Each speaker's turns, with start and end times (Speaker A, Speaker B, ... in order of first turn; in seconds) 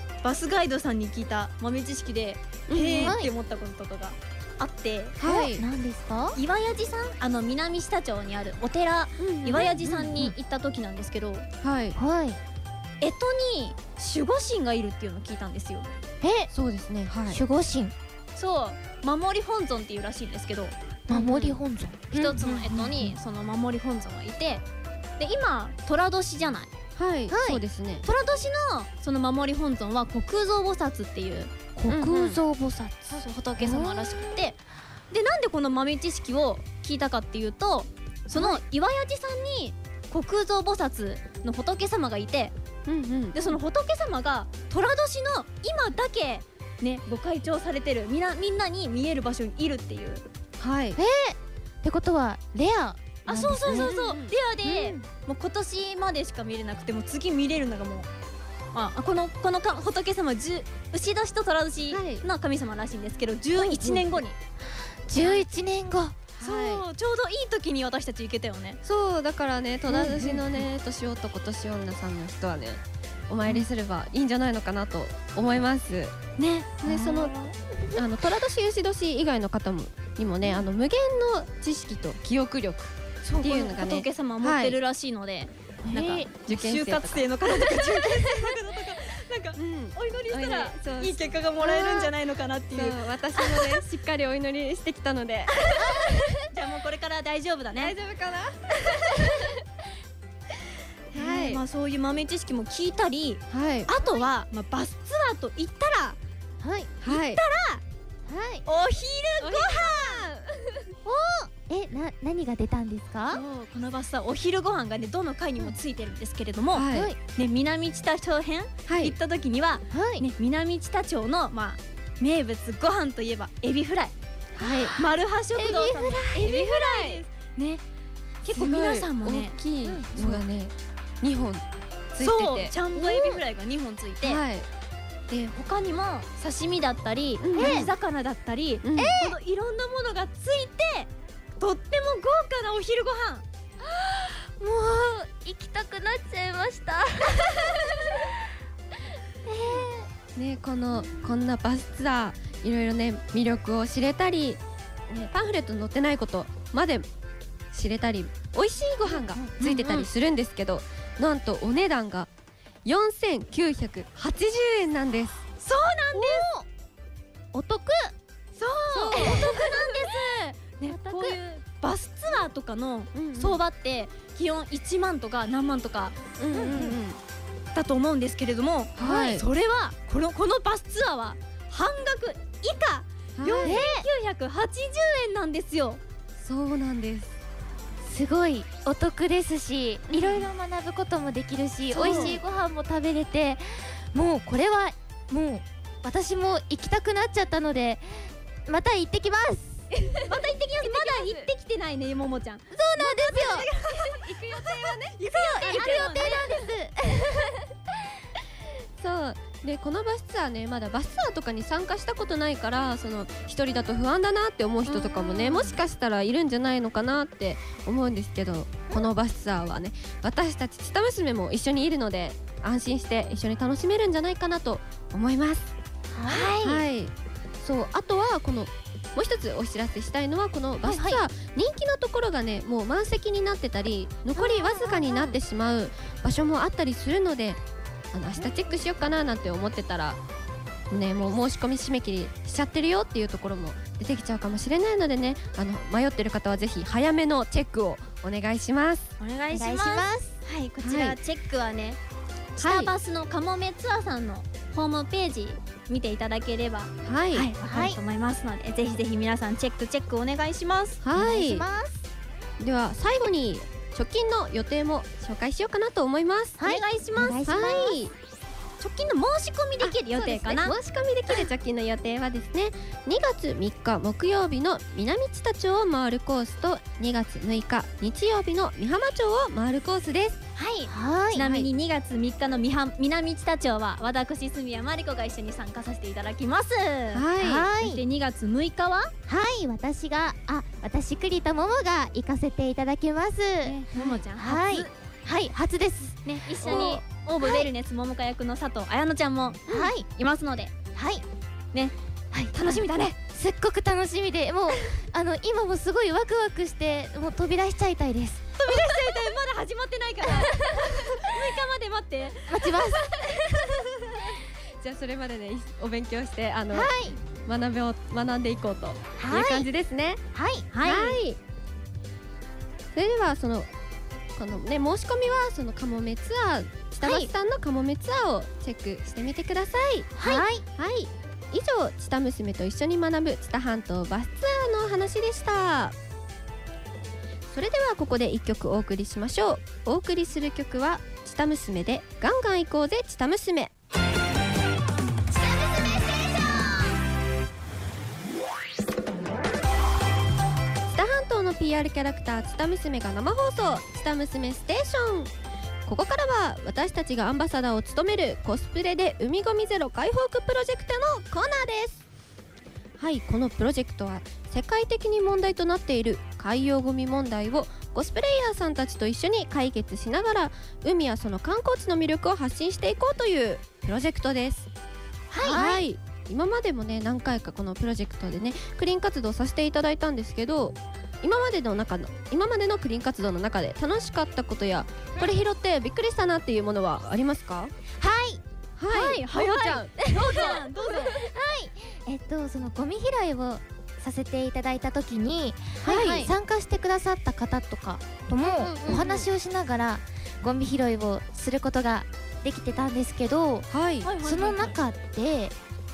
Speaker A: 0.2-5.2, 6.3-11.5, 13.0-15.9, 18.4-21.5, 22.1-24.6, 25.2-26.7, 28.0-31.5, 33.1-34.6, 35.1-42.5, 43.3-50.2, 53.3-58.1, 58.7-64.4, 66.4-68.8, 76.4-77.4, 83.2-93.8, 95.6-98.0, 101.1-106.2, 107.1-107.8, 108.7-110.2, 113.3-124.1, 125.0-127.8, 128.4-129.6, 132.2-134.4, 135.5-143.4, 159.6-160.1, 165.6-166.5, 168.6-176.2, 177.7-186.0, 191.9-192.4, 200.3-206.6, 226.3-226.8, 230.9-231.2, 249.2-252.0, 252.6-261.0, 266.6-267.4, 268.8-270.7, 280.6-287.3, 287.8-289.1, 293.6-294.9, 296.3-300.7, 302.5-303.2, 308.6-312.7, 313.2-314.3, 320.7-321.2, 327.0-327.3, 375.3-375.7, 388.9-391.2, 395.9-396.3, 398.8-399.2, 404.0-404.8
Speaker B: 2.7-3.2, 5.2-5.6, 9.2-10.3, 11.6-12.0, 16.5-17.4, 21.1-21.5, 27.0-28.1, 31.9-32.4, 42.9-43.4, 50.6-51.0, 53.6-55.0, 61.9-62.3, 63.6-64.2, 66.4-66.8, 68.8-76.1, 76.8-77.3, 77.9-84.8, 86.5-88.6, 89.6-92.1, 92.7-96.4, 97.8-99.6, 101.1-101.6, 103.5-103.9, 107.0-107.4, 109.4-111.0, 116.7-117.1, 118.9-119.2, 124.5-125.0, 126.3-127.2, 128.5-133.4, 134.2-134.7, 137.4-137.9, 138.8-139.2, 150.3-157.1, 157.7-162.3, 162.8-165.4, 168.9-169.8, 173.1-173.6, 176.4-177.2, 179.0-179.4, 183.4-183.8, 186.4-187.3, 190.1-190.5, 191.9-192.4, 199.9-201.5, 202.9-206.4, 209.0-225.7, 226.6-237.6, 238.1-240.2, 240.9-249.1, 250.8-251.2, 252.6-252.9, 257.0-257.5, 261.0-261.7, 262.6-266.6, 267.4-268.1, 269.8-280.4, 281.4-281.7, 287.1-287.7, 296.6-297.0, 314.8-316.9, 317.4-320.2, 320.8-321.4, 322.9-323.7, 324.4-335.9, 337.5-343.7, 350.9-355.3, 355.9-362.0, 363.0-374.7, 375.5-387.7, 388.8-391.3, 395.8-396.2, 398.6-399.1, 403.7-404.1
Speaker C: 3.0-3.3, 5.2-6.4, 12.0-12.4, 16.2-16.5, 17.3-17.9, 21.1-23.1, 27.3-27.6, 31.8-34.4, 38.4-38.6, 51.0-53.9, 65.1-66.2, 69.9-70.5, 76.9-77.3, 85.9-86.3, 104.0-104.3, 106.6-106.9, 108.3-108.7, 111.0-113.4, 116.9-117.2, 119.9-120.3, 124.6-125.0, 125.6-126.4, 129.8-130.4, 137.6-137.9, 139.0-139.3, 143.8-148.4, 149.5-150.1, 151.0-151.3, 159.1-159.5, 166.2-166.7, 167.5-168.1, 169.1-169.6, 170.9-171.4, 176.5-177.0, 183.6-184.1, 188.0-199.9, 202.9-203.7, 205.3-207.6, 214.9-215.8, 226.1-226.5, 234.4-235.3, 249.5-250.4, 257.7-258.0, 261.1-262.1, 266.6-268.0, 280.9-281.4, 287.4-288.0, 289.3-297.7, 299.7-300.1, 301.0-301.2, 302.3-308.5, 312.5-313.1, 316.7-317.2, 319.2-319.7, 320.3-320.7, 330.2-330.6, 345.6-346.4, 375.4-375.8, 388.0-388.4, 391.1-403.7, 404.2-405.6